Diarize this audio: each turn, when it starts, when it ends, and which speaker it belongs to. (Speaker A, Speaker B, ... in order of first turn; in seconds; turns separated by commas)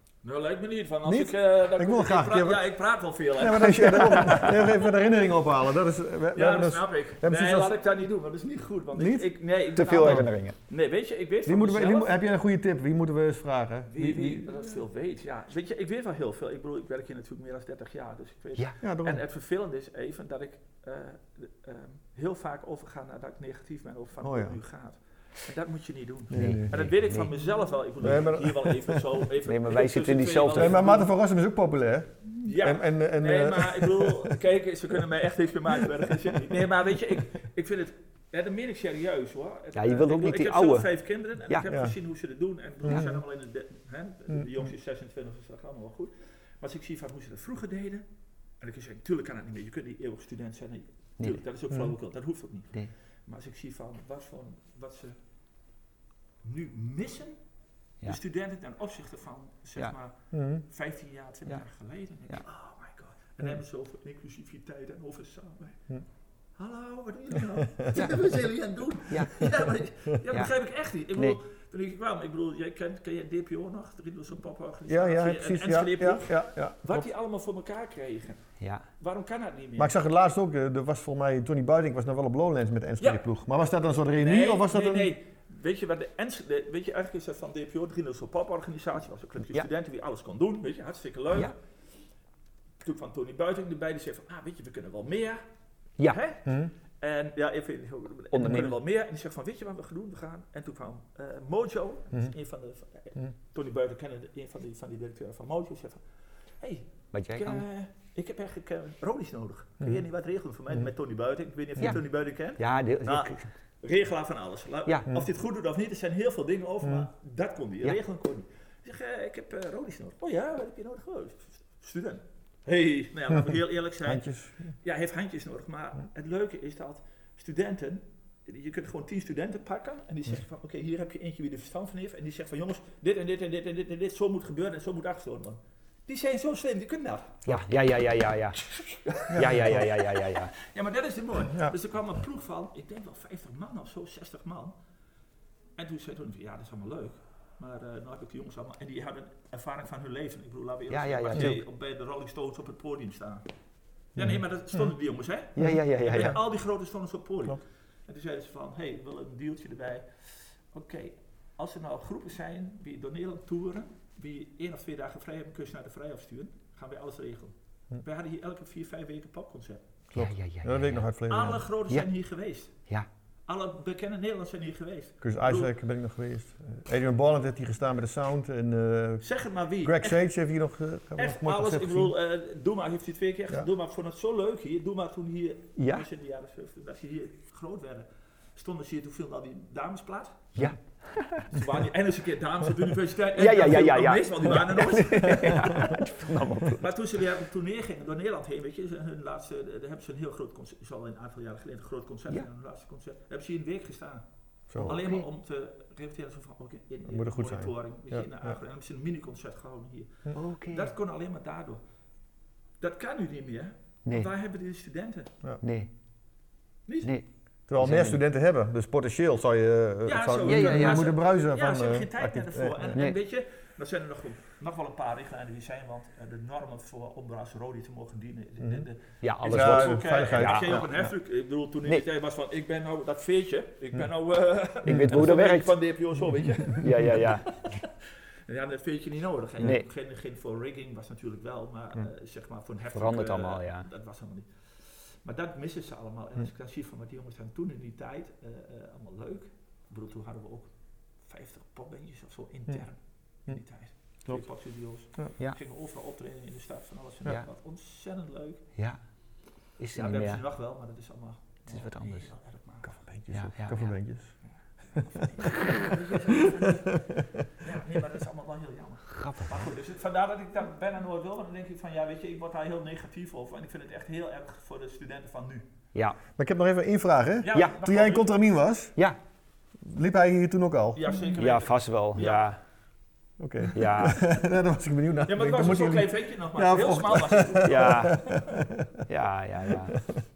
Speaker A: 0.2-4.6, Speaker B: 1.0-2.6, Speaker B: 3.4-7.7, Speaker C: 3.5-4.5, Speaker A: 6.3-12.1, Speaker B: 8.9-9.3, Speaker C: 9.7-10.6, Speaker B: 10.0-10.2, Speaker B: 11.4-14.7, Speaker A: 13.9-31.1, Speaker B: 18.8-19.2, Speaker B: 24.2-24.6, Speaker B: 26.3-26.7, Speaker C: 26.3-27.3, Speaker B: 28.0-29.0, Speaker C: 29.4-30.8, Speaker B: 30.5-34.4, Speaker A: 32.4-48.0, Speaker C: 39.7-40.9, Speaker B: 41.7-41.9, Speaker B: 42.8-43.2, Speaker A: 48.6-52.7, Speaker B: 51.7-51.9, Speaker A: 53.2-55.2, Speaker A: 56.4-57.4, Speaker A: 58.0-65.8, Speaker B: 60.3-60.6, Speaker A: 66.5-78.4, Speaker C: 67.9-68.3, Speaker C: 69.1-69.3, Speaker C: 70.3-70.5, Speaker B: 74.9-77.1, Speaker C: 78.6-78.8, Speaker A: 79.0-79.9, Speaker B: 79.8-85.1, Speaker A: 84.2-91.5, Speaker A: 92.8-95.4, Speaker A: 96.0-106.0, Speaker B: 96.5-96.7, Speaker C: 98.3-98.7, Speaker A: 106.6-124.2, Speaker C: 107.1-107.6, Speaker C: 112.6-113.5, Speaker B: 124.0-124.6, Speaker A: 124.8-137.4, Speaker C: 137.4-138.6, Speaker A: 138.8-144.7, Speaker B: 139.3-139.8, Speaker C: 139.3-140.5, Speaker B: 141.5-141.7, Speaker A: 145.8-153.5, Speaker C: 150.9-151.6, Speaker A: 154.1-160.2, Speaker B: 154.2-154.9, Speaker C: 155.6-156.4, Speaker B: 155.6-156.4, Speaker A: 160.7-169.8, Speaker C: 170.1-171.1, Speaker B: 170.1-171.7, Speaker A: 171.3-172.7, Speaker A: 173.5-175.7, Speaker B: 175.2-179.2, Speaker A: 179.2-180.2, Speaker B: 179.8-182.1, Speaker A: 181.2-190.5, Speaker C: 185.8-186.1, Speaker C: 190.6-191.5, Speaker A: 191.5-204.2, Speaker C: 193.3-196.9, Speaker B: 204.7-205.0, Speaker C: 204.8-205.2, Speaker A: 204.8-211.8, Speaker B: 207.1-208.5, Speaker C: 210.3-210.9, Speaker A: 212.8-215.3, Speaker C: 214.0-214.3, Speaker C: 215.6-215.9, Speaker A: 216.8-217.1, Speaker C: 217.0-218.2, Speaker B: 217.7-223.0, Speaker A: 220.0-237.9, Speaker C: 220.4-221.1, Speaker C: 229.2-230.8, Speaker B: 229.4-231.1, Speaker C: 234.8-235.7, Speaker C: 236.8-237.5, Speaker A: 238.4-244.5, Speaker C: 239.6-239.8, Speaker C: 242.9-243.9, Speaker A: 245.1-250.7, Speaker A: 251.2-258.6, Speaker C: 259.8-260.4, Speaker A: 259.9-263.4, Speaker C: 261.7-262.3, Speaker C: 263.3-263.9, Speaker B: 263.3-264.3, Speaker A: 264.9-275.6, Speaker B: 266.3-267.1, Speaker C: 269.1-269.7, Speaker B: 276.4-278.9, Speaker A: 277.4-278.3, Speaker B: 279.8-281.1, Speaker A: 280.9-282.4, Speaker C: 281.4-282.6, Speaker B: 283.4-289.0, Speaker C: 283.7-284.2, Speaker A: 285.3-288.4, Speaker C: 287.6-288.2, Speaker C: 289.1-290.0